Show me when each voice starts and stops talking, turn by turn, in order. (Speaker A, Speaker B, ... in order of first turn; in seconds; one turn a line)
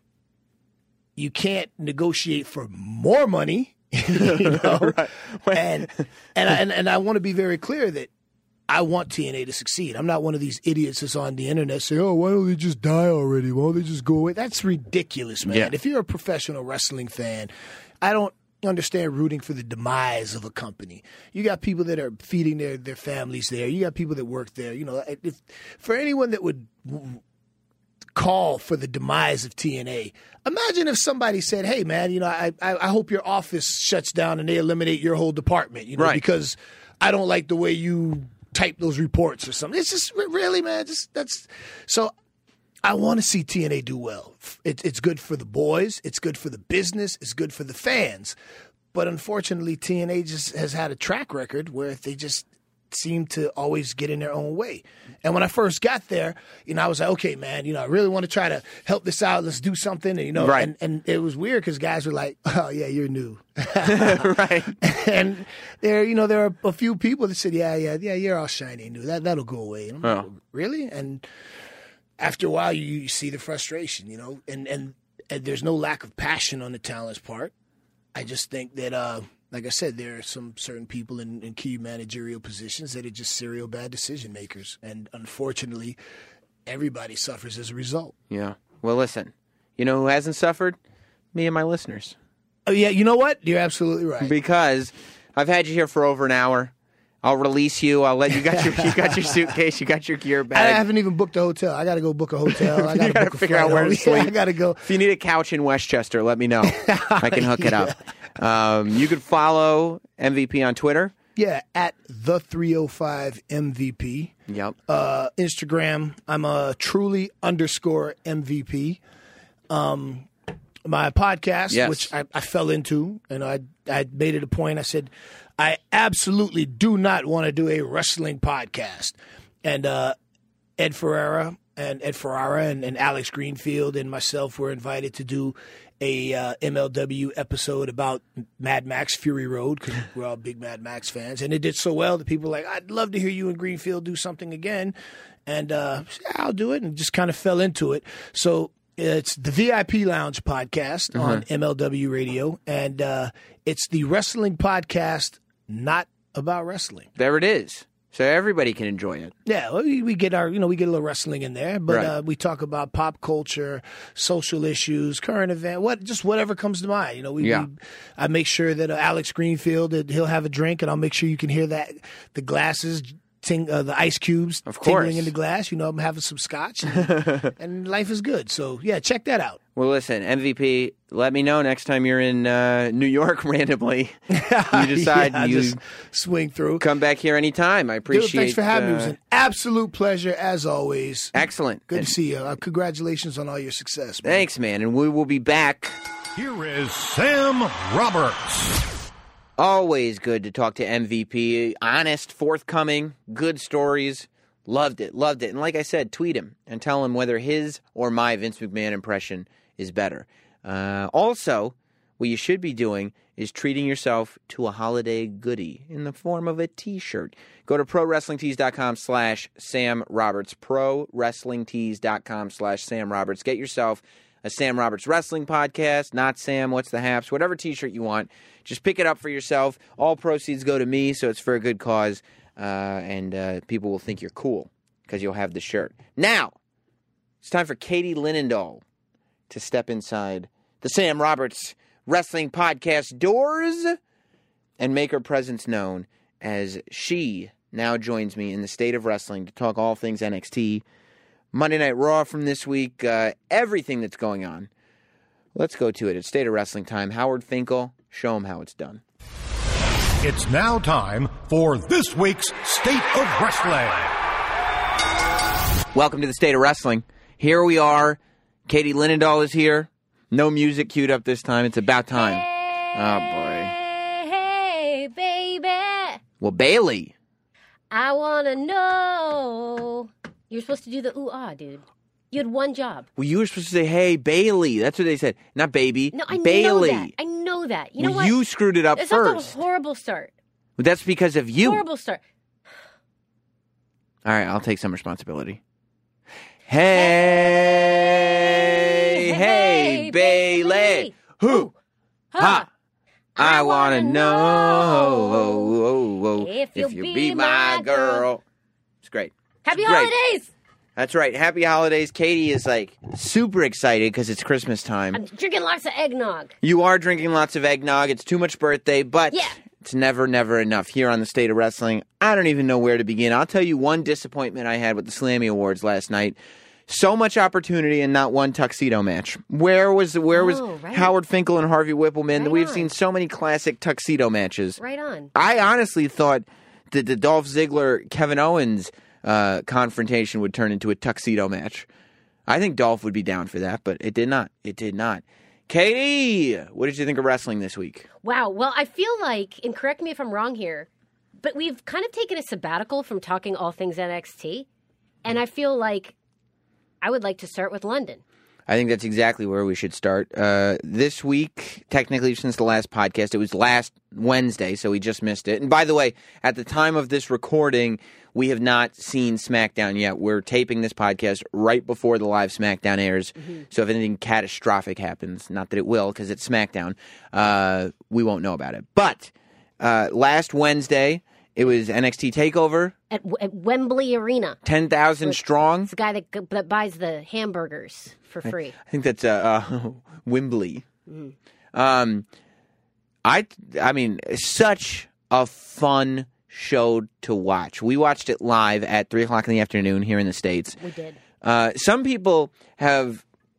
Speaker A: 1.2-8.1
Speaker B: 4.1-5.9
Speaker A: 8.7-17.5
Speaker B: 15.4-15.7
Speaker A: 18.0-27.2
Speaker A: 28.1-42.1
Speaker B: 36.0-36.2
Speaker A: 42.8-48.4
Speaker A: 48.9-71.2
Speaker B: 60.4-60.7
Speaker B: 63.8-64.8
Speaker A: 72.2-77.5
Speaker A: 78.1-86.0
Speaker A: 86.7-88.2
Speaker B: 88.3-90.8
Speaker B: 91.3-92.2
Speaker A: 92.7-94.3
Speaker B: 94.2-100.8
Speaker A: 98.5-99.5
Speaker A: 100.5-104.9
Speaker B: 102.5-111.2
Speaker A: 106.7-108.0
Speaker A: 111.4-114.4
Speaker B: 114.5-114.8
Speaker A: 114.9-119.0
Speaker A: 119.7-120.3
Speaker A: 120.8-130.2
Speaker B: 121.7-122.1
Speaker A: 130.8-144.9
Speaker A: 145.5-157.1
Speaker B: 151.1-151.4
Speaker B: 157.2-159.3
Speaker A: 159.5-179.6
Speaker B: 161.9-162.1
Speaker B: 167.4-167.7
Speaker B: 174.7-175.3
Speaker B: 177.1-177.5
Speaker B: 179.8-184.2
Speaker A: 184.3-186.9
Speaker B: 184.7-185.8
Speaker B: 186.8-189.2
Speaker A: 188.1-191.3
Speaker B: 191.3-192.1
Speaker A: 191.9-194.5
Speaker B: 194.2-196.0
Speaker C: 196.3-198.8
Speaker B: 199.6-236.5
Speaker B: 237.4-238.8
Speaker B: 239.5-244.0
Speaker B: 244.8-250.8
Speaker B: 251.5-254.7
Speaker B: 255.6-259.0
Speaker C: 260.2-264.1
Speaker B: 265.9-273.7
Speaker D: 272.1-276.2
Speaker B: 276.4-277.1
Speaker D: 277.9-283.1
Speaker B: 283.2-287.1
Speaker D: 286.1-288.4
Speaker B: 288.0-289.6
Speaker D: 288.9-290.3
Speaker B: 290.8-291.8
Speaker D: 291.6-292.2
Speaker B: 294.2-295.6
Speaker B: 296.7-301.7
Speaker D: 296.9-301.7
Speaker D: 302.3-302.7
Speaker B: 302.4-302.7
Speaker D: 303.4-305.8
Speaker B: 303.4-308.4
Speaker D: 306.4-308.3
Speaker B: 309.0-310.1
Speaker D: 309.6-310.5
Speaker B: 311.0-315.2
Speaker D: 315.1-316.6
Speaker B: 316.6-326.4
Speaker B: 326.9-334.8
Speaker D: 330.3-331.1
Speaker D: 332.4-332.9
Speaker D: 334.8-335.3
Speaker B: 335.3-341.9
Speaker B: 342.5-348.1
Speaker D: 348.2-350.9
Speaker D: 351.4-354.7
Speaker D: 355.2-356.2
Speaker D: 357.0-358.2
Speaker B: 358.7-382.9
Speaker D: 383.1-384.6
Speaker B: 384.6-385.9
Speaker D: 385.2-388.8
Speaker B: 388.4-390.9
Speaker D: 391.1-391.4
Speaker B: 391.7-392.3
Speaker B: 393.2-400.8
Speaker D: 400.8-401.2
Speaker B: 401.4-403.2